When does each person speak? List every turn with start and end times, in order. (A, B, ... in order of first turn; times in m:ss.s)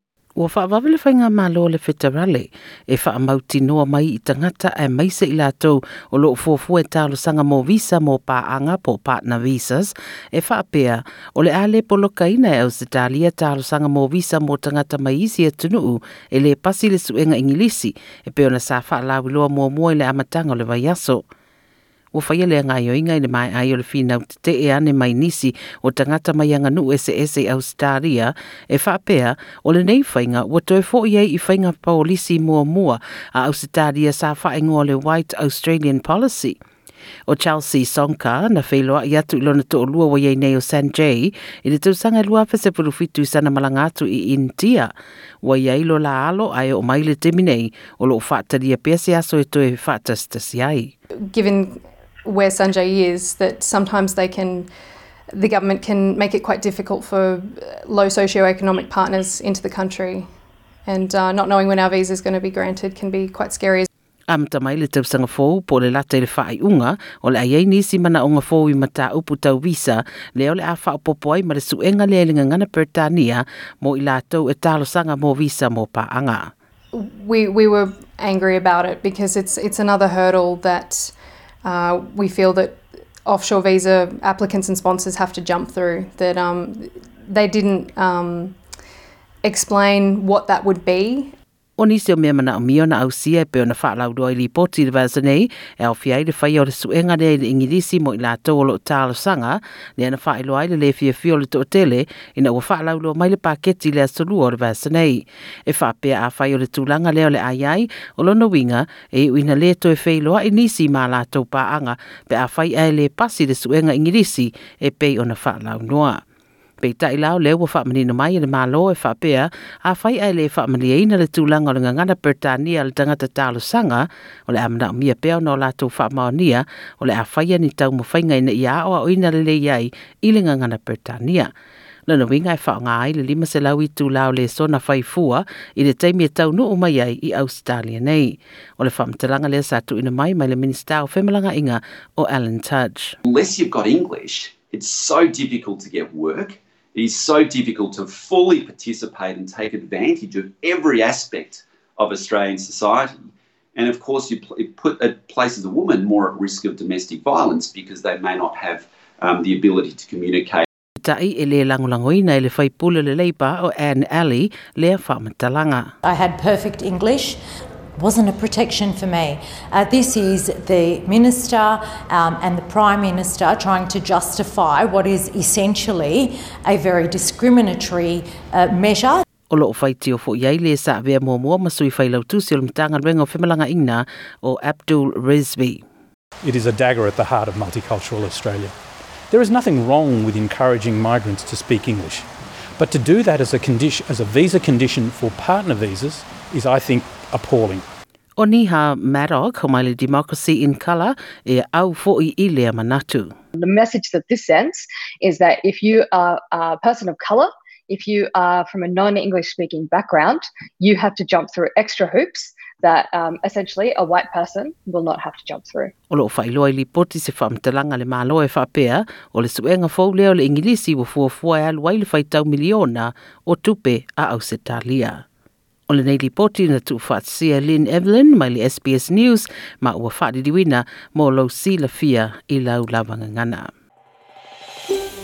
0:00.4-0:21.2 A
0:22.1-0:36.6 A
0:37.3-0:50.9 A
0:51.3-0:54.7 B
0:55.3-1:00.3 B
1:00.9-1:03.9 B
1:04.3-1:16.5 A
1:16.9-1:28.6 B
1:29.4-1:31.3 B
1:31.8-1:56.2 A
1:56.8-2:11.5 A
2:12.1-2:23.2 A
2:23.3-2:33.2 C
2:33.8-2:40.6 C
2:41.0-2:45.9 A
2:46.0-2:47.4 D
2:48.0-2:59.2 D
2:59.5-3:05.8 A
3:06.4-3:08.8 E
3:09.3-3:12.3 E
3:12.8-3:17.8 E
3:18.4-3:23.3 A
3:23.6-3:35.9 F
3:36.1-3:45.2 A
3:45.9-3:53.7 A